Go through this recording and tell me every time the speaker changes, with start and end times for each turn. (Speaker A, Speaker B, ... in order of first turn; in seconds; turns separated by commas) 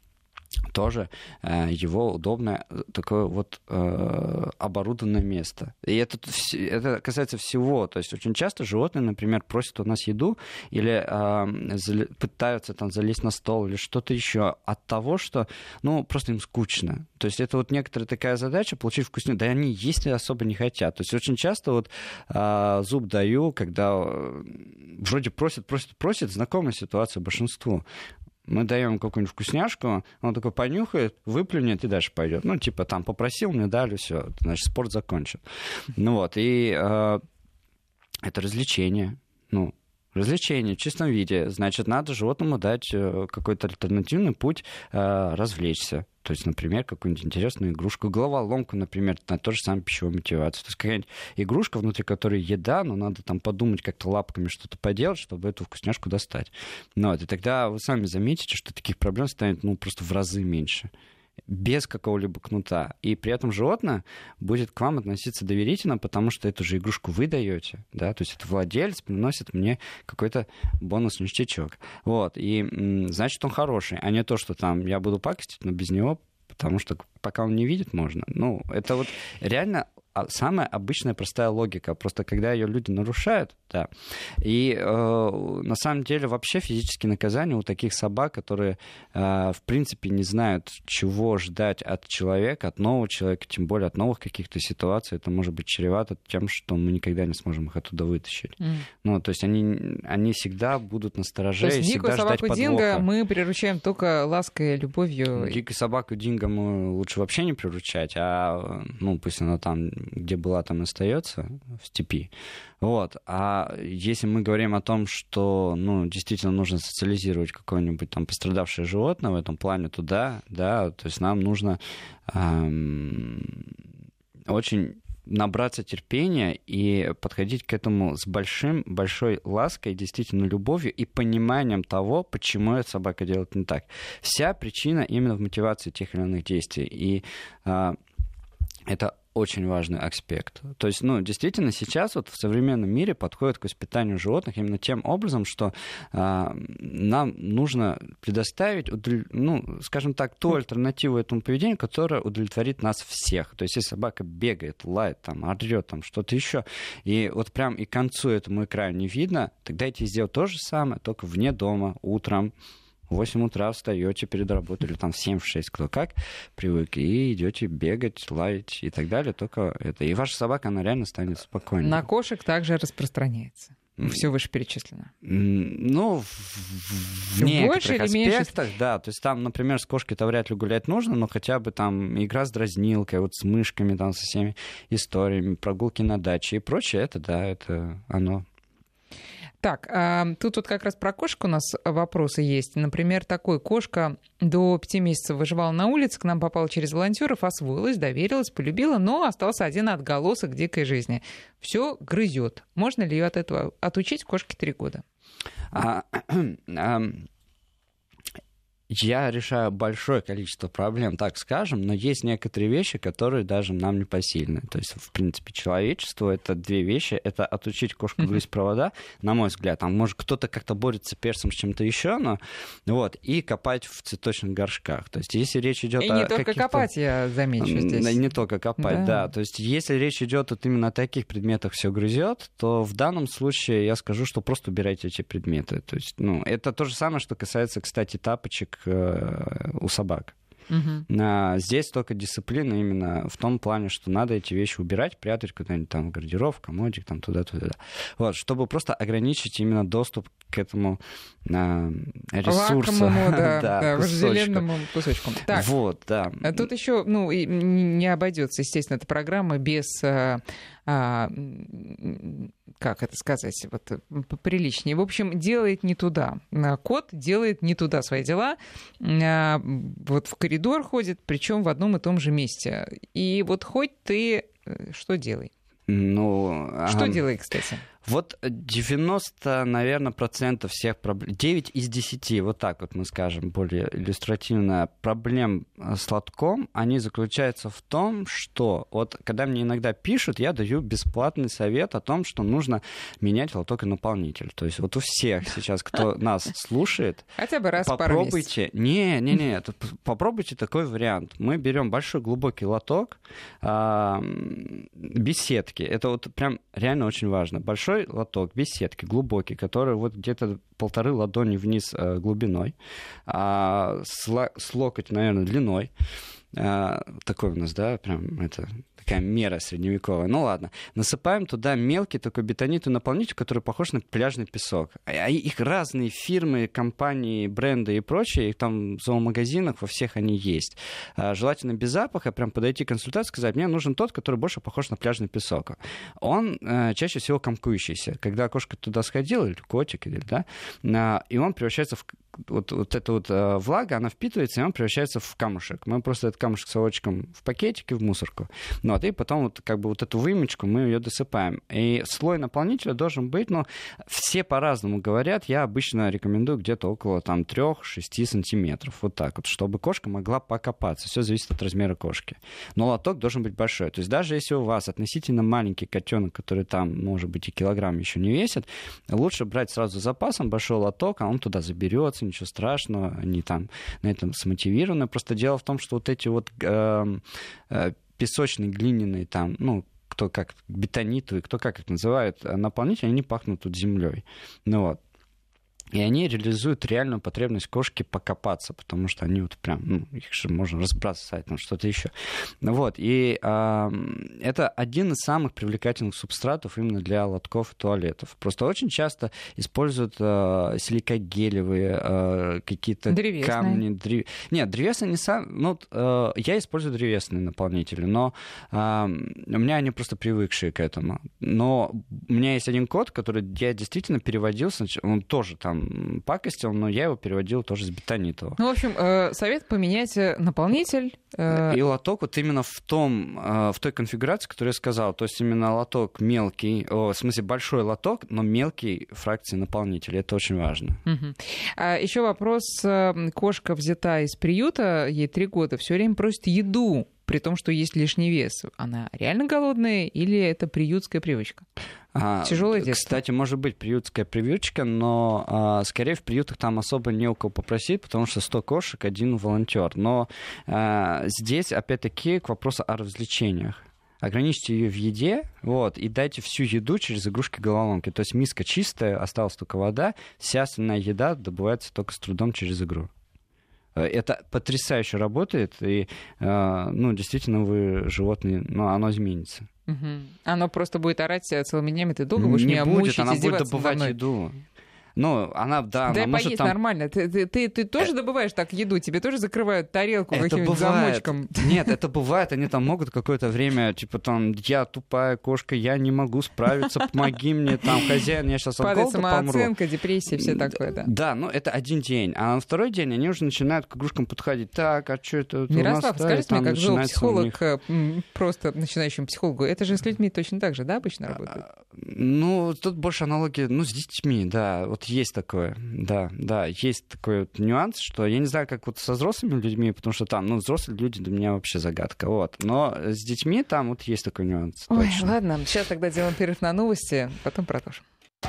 Speaker A: 0.7-27.8, Speaker A: 28.4-35.4, Speaker A: 35.9-37.2, Speaker A: 38.2-60.9, Speaker A: 61.5-83.9, Speaker A: 84.4-103.1, Speaker B: 98.6-98.9, Speaker B: 101.6-105.6, Speaker A: 105.3-112.3, Speaker A: 112.8-123.7, Speaker A: 124.5-138.0, Speaker A: 138.9-162.5, Speaker A: 163.1-172.1, Speaker B: 171.8-175.1, Speaker A: 174.0-174.2, Speaker A: 175.2-188.4, Speaker B: 177.4-178.5, Speaker B: 189.6-205.0, Speaker A: 205.7-207.3, Speaker A: 208.9-226.9, Speaker B: 226.0-228.2, Speaker A: 227.6-240.3, Speaker B: 228.8-229.3, Speaker B: 240.7-241.1, Speaker A: 241.1-254.7, Speaker B: 252.4-255.7, Speaker A: 255.5-256.7, Speaker B: 256.4-275.5, Speaker A: 275.9-277.2, Speaker B: 276.9-277.8, Speaker A: 278.0-297.3, Speaker B: 297.4-298.5, Speaker A: 297.8-312.8, Speaker A: 313.3-315.9, Speaker A: 316.5-385.0, Speaker A: 385.9-418.6, Speaker B: 403.1-403.8, Speaker B: 418.6-421.8, Speaker A: 421.5-431.0, Speaker B: 431.1-441.6, Speaker A: 442.1-463.1, Speaker B: 442.4-443.1, Speaker A: 463.9-469.7, Speaker B: 469.9-474.1, Speaker A: 472.4-474.6, Speaker A: 475.1-476.8, Speaker B: 476.1-481.9, Speaker A: 480.3-489.7, Speaker B: 488.8-491.1, Speaker A: 490.3-497.6, Speaker B: 495.7-501.6, Speaker A: 501.9-515.3, Speaker B: 514.9-518.0